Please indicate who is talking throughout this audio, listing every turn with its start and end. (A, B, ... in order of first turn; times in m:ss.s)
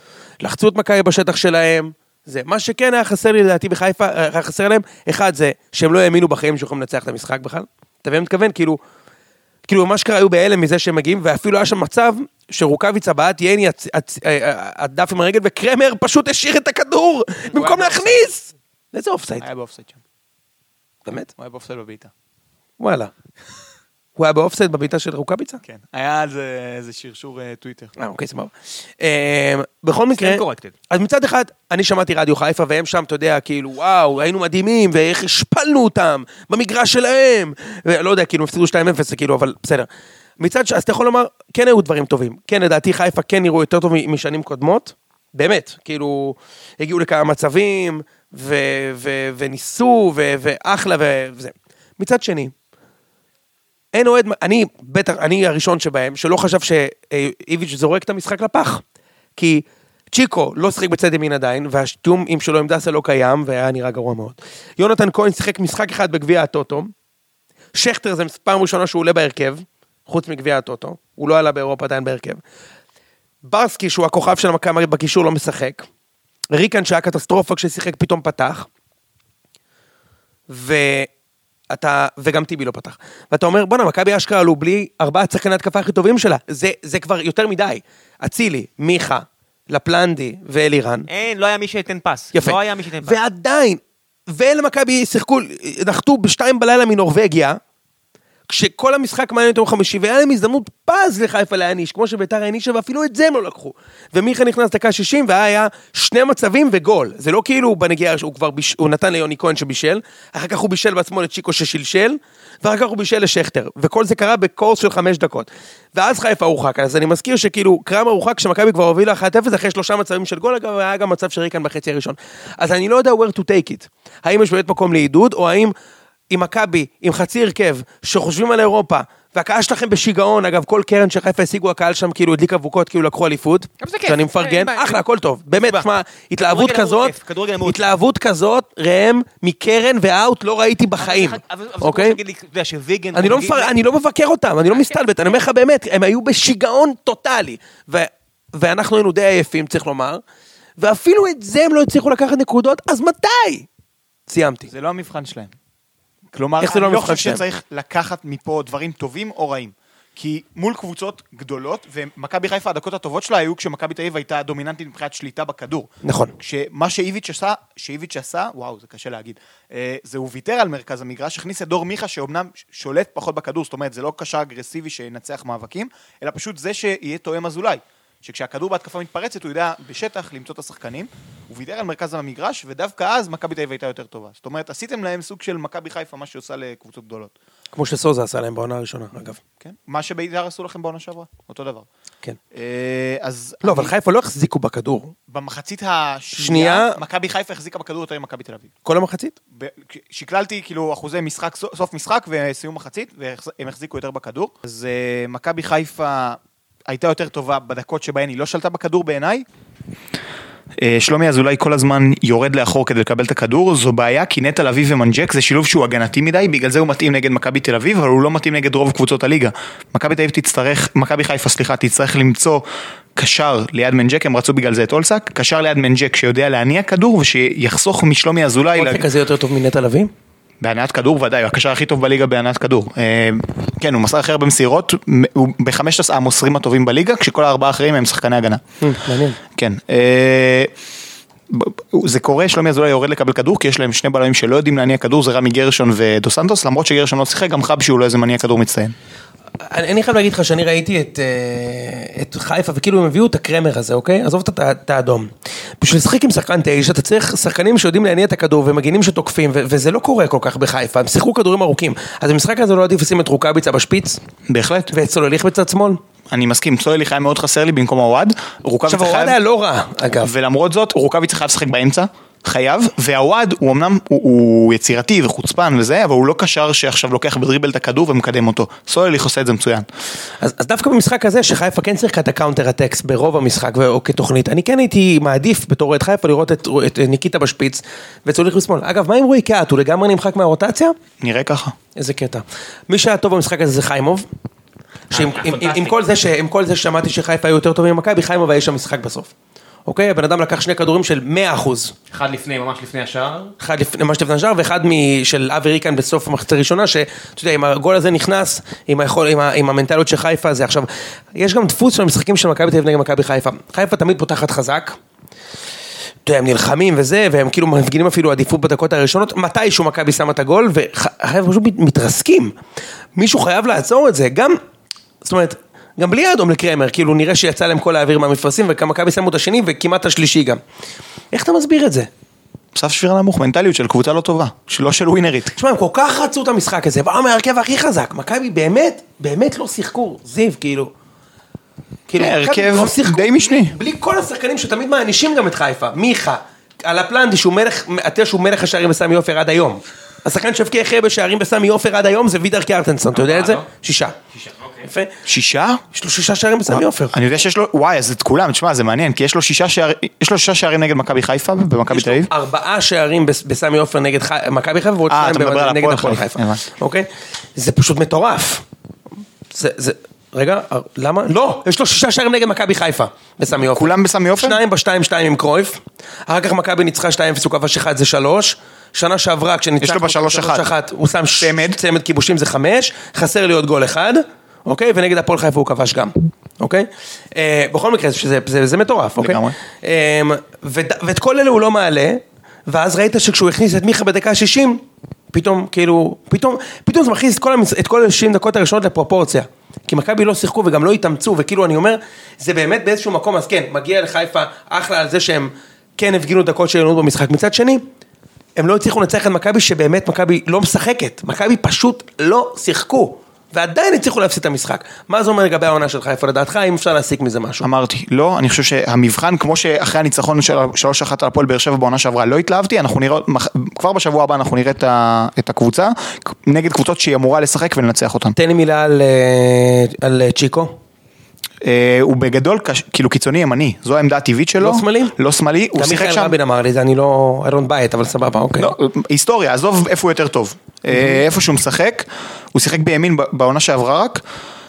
0:00.4-0:08.8 A
0:09.6-0:19.5 A
0:17.7-0:18.2 B
0:19.4-0:20.0 B
0:21.4-0:22.1 B
0:22.8-0:23.1 A
0:24.2-0:25.6 A
0:25.6-0:27.9 B
0:28.0-0:39.9 A
0:30.1-0:30.8 C
0:40.4-0:52.5 A
0:53.9-0:58.8 A
0:59.4-1:06.9 A
1:07.7-1:12.4 A
1:13.4-1:15.9 A
1:16.5-1:18.7 A
1:20.5-1:21.1 A
1:21.7-1:31.1 A
1:31.1-1:33.2 C
1:32.3-1:37.6 A
1:38.5-2:05.7 A
2:06.3-2:22.2 A
2:13.8-2:15.0 C
2:15.6-2:15.9 C
2:16.4-2:17.9 C
2:21.0-2:23.8 C
2:23.1-2:30.2 A
2:24.7-2:25.0 C
2:30.8-2:33.7 A
2:34.3-2:34.7 A
2:34.7-2:35.5 B
2:36.3-3:07.3 B
2:36.6-2:37.4 A
2:46.0-2:46.4 A
3:07.7-3:09.4 A
3:09.6-3:11.9 B
3:12.5-3:13.9 B
3:13.6-3:15.1 A
3:15.3-3:18.7 B
3:16.4-3:17.0 A
3:18.8-3:19.4 A
3:19.5-3:29.5 B
3:30.8-3:42.6 B
3:43.2-3:49.1 B
3:48.7-3:50.1 A
3:50.6-3:58.6 B
3:58.8-3:59.4 A
3:59.6-4:00.7 B
4:01.5-4:08.9 B
4:09.6-4:24.2 A
4:24.5-4:24.9 B
4:24.9-4:26.0 A
4:26.3-4:29.4 B
4:28.9-4:30.3 A
4:30.2-4:39.9 B
4:40.4-4:51.0 A
4:51.2-4:51.8 B
4:52.0-4:54.3 A
4:55.1-4:59.3 A
4:55.1-4:56.0 C
4:59.9-5:01.9 A
5:02.1-5:03.6 C
5:03.6-5:15.0 A
5:16.2-5:22.5 A
5:23.2-5:24.6 A
5:25.2-5:30.6 A
5:31.3-5:32.1 A
5:32.8-5:35.5 B
5:35.5-5:40.9 A
5:42.1-5:54.2 A
5:42.2-5:43.8 B
5:53.1-5:53.7 C
5:54.3-5:54.9 C
5:54.8-5:55.1 A
5:55.3-5:55.8 B
5:55.9-5:57.2 A
5:56.7-6:02.3 B
6:01.9-6:08.6 A
6:05.1-6:06.6 B
6:09.5-6:47.8 A
6:13.6-6:14.6 B
6:19.8-6:20.7 B
6:21.4-6:21.8 B
6:29.2-6:29.6 B
6:48.6-6:57.6 A
6:57.6-7:08.4 B
7:08.4-7:10.8 A
7:11.6-7:16.4 B
7:14.6-7:15.2 A
7:15.8-7:18.7 A
7:18.6-7:24.2 B
7:20.9-7:21.2 A